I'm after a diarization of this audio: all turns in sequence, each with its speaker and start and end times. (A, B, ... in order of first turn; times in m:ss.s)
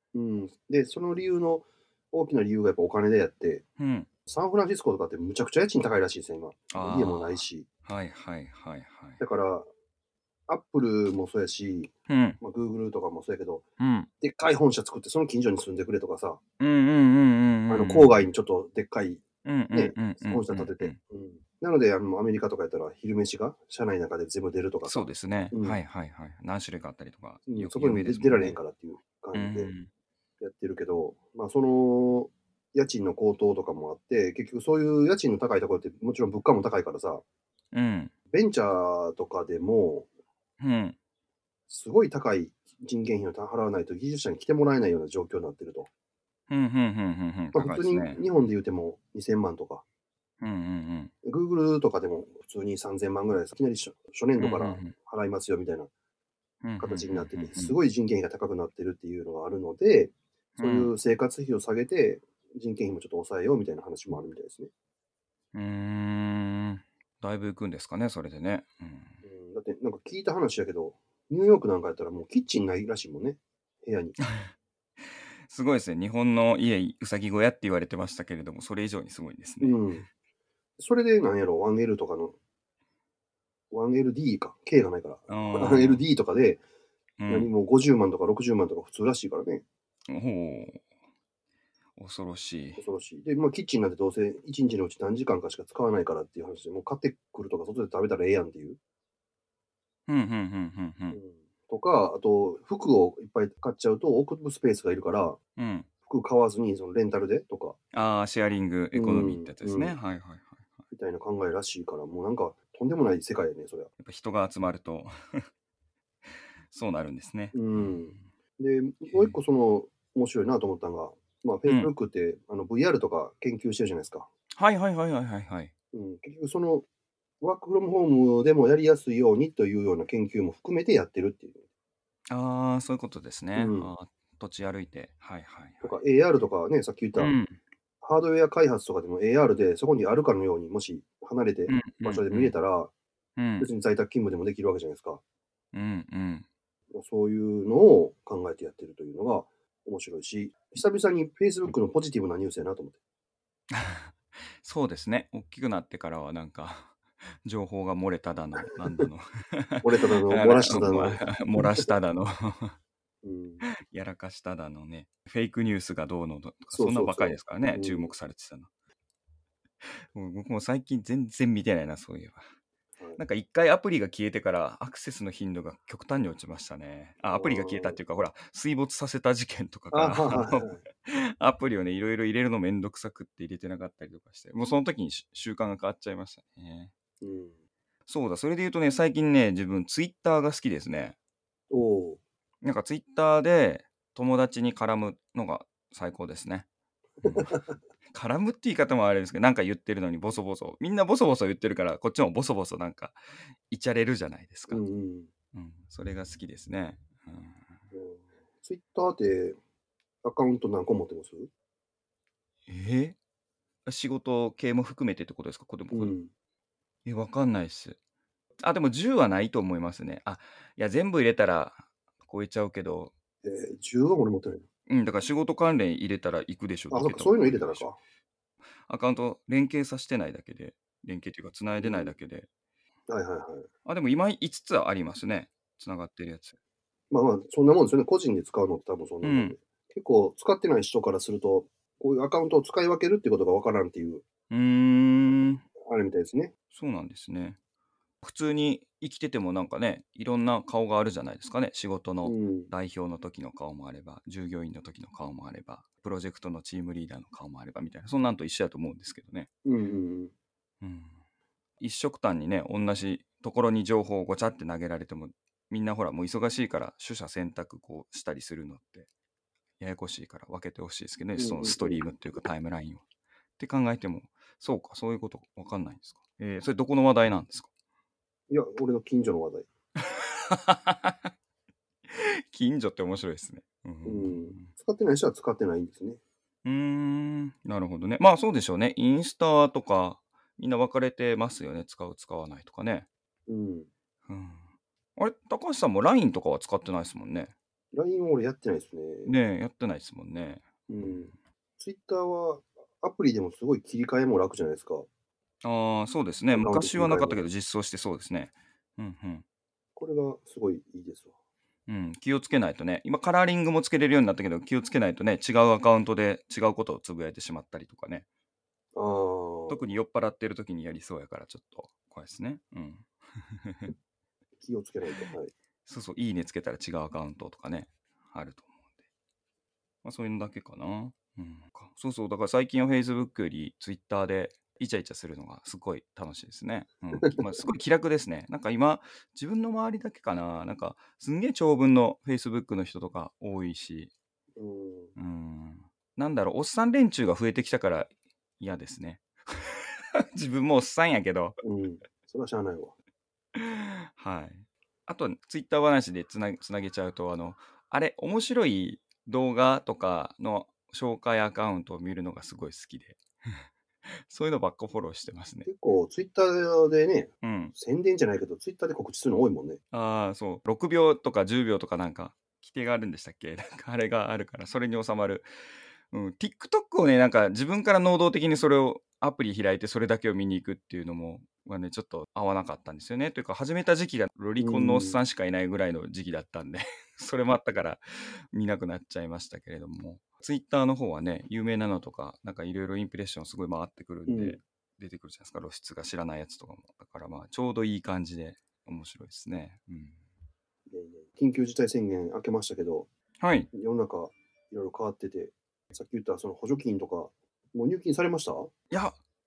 0:00.1-0:03.6 A
0:03.8-0:04.1 B
0:04.2-0:07.7 A
0:06.7-0:09.2 B
0:09.2-0:09.7 A
0:10.5-0:13.6 A
0:12.1-0:12.4 B
0:13.8-0:14.1 B
0:14.2-0:16.4 A
0:16.6-0:18.2 B
0:17.7-0:25.8 A
0:19.4-0:21.0 B
0:24.8-0:28.6 B
0:27.5-0:29.7 A
0:29.3-0:29.9 B
0:30.4-0:37.2 A
0:37.7-0:38.1 B
0:38.3-0:40.1 A
0:40.6-0:41.0 B
0:41.7-0:45.9 A
0:46.5-0:48.2 B
0:47.5-0:49.8 A
0:50.4-0:51.1 B
0:51.2-0:55.9 A
0:54.4-0:54.9 B
0:56.6-0:57.8 B
0:56.8-1:04.7 A
1:00.6-1:00.9 B
1:05.5-1:09.1 B
1:09.2-1:14.2 A
1:14.2-1:14.5 B
1:15.5-1:19.8 B
1:19.6-1:20.1 A
1:20.8-1:22.4 A
1:23.7-1:26.6 A
1:25.3-1:26.0 B
1:27.2-1:27.5 B
1:27.3-1:29.6 A
1:30.1-1:30.8 B
1:32.0-1:32.8 B
1:32.8-1:38.8 A
1:40.1-1:41.2 B
1:41.1-1:45.4 A
1:45.6-1:45.9 B
1:46.1-1:47.8 A
1:47.9-1:50.7 B
1:48.9-1:50.0 A
1:50.9-1:53.9 A
1:54.0-1:55.4 B
1:56.7-1:58.2 B
1:57.5-2:04.3 A
2:04.5-2:05.7 B
2:05.9-2:06.8 A
2:07.4-2:11.6 A
2:12.3-2:16.0 B
2:13.6-2:13.9 A
2:15.8-2:17.3 A
2:17.2-2:17.6 B
2:18.0-2:22.9 A
2:21.7-2:22.5 B
2:23.4-2:23.7 B
2:23.6-2:25.2 A
2:25.7-2:26.4 B
2:26.9-2:33.0 A
2:33.7-2:42.8 B
2:39.8-2:41.9 A
2:43.2-2:43.6 A
2:43.6-2:48.7 B
2:46.7-2:48.1 A
2:49.8-2:52.4 B
2:53.2-3:06.9 B
2:57.3-2:58.0 A
2:59.9-3:00.8 A
3:07.2-3:07.6 A
3:08.1-3:11.2 B
3:11.7-3:12.2 A
3:12.6-3:16.7 B
3:17.2-3:17.6 B
3:17.2-3:17.8 A
3:18.1-3:24.8 B
3:24.7-3:25.3 A
3:25.5-3:27.7 B
3:27.9-3:29.6 A
3:30.2-3:31.5 A
3:32.7-3:33.2 B
3:33.8-3:36.2 B
3:35.9-3:36.3 A
3:37.0-3:38.0 B
3:38.6-3:43.1 B
3:43.4-3:44.6 A
3:44.9-3:47.9 B
3:46.9-3:48.0 A
3:48.8-3:52.5 B
3:51.8-3:52.1 A
3:53.1-3:53.7 A
3:53.8-3:56.6 B
3:57.1-4:04.2 A
3:59.2-3:59.6 B
4:04.5-4:05.6 B
4:05.8-4:06.5 A
4:06.7-4:07.6 B
4:08.2-4:19.5 B
4:12.2-4:12.7 A
4:19.6-4:20.3 A
4:20.8-4:21.2 B
4:21.8-4:29.1 B
4:29.8-4:33.0 B
4:31.4-4:32.0 A
4:33.6-4:37.7 B
4:38.5-4:39.7 A
4:40.0-4:41.3 B
4:42.1-4:44.7 B
4:44.0-4:46.2 A
4:46.6-4:53.1 B
4:53.5-4:53.9 A
4:54.3-4:54.6 B
4:55.2-4:57.5 B
4:57.9-4:59.3 A
4:59.3-5:01.3 B
5:00.9-5:05.1 A
5:05.6-5:09.4 B
5:06.5-5:07.4 A
5:10.0-5:11.3 A
5:11.9-5:18.2 B
5:18.9-5:19.8 A
5:19.7-5:23.9 B
5:24.6-5:25.5 A
5:25.8-5:28.8 B
5:30.0-5:44.1 B
5:37.2-5:37.6 A
5:44.6-5:45.1 A
5:45.2-5:51.6 B
5:51.6-5:52.9 A
5:53.6-6:03.6 B
6:04.3-6:05.7 B
6:05.7-6:09.8 A
6:07.4-6:07.7 B
6:09.9-6:15.5 B
6:16.1-6:40.2 B
6:24.6-6:25.2 A
6:34.3-6:34.6 A
6:40.9-6:43.1 A
6:43.4-6:43.7 B
6:43.7-6:48.7 A
6:48.9-6:49.2 B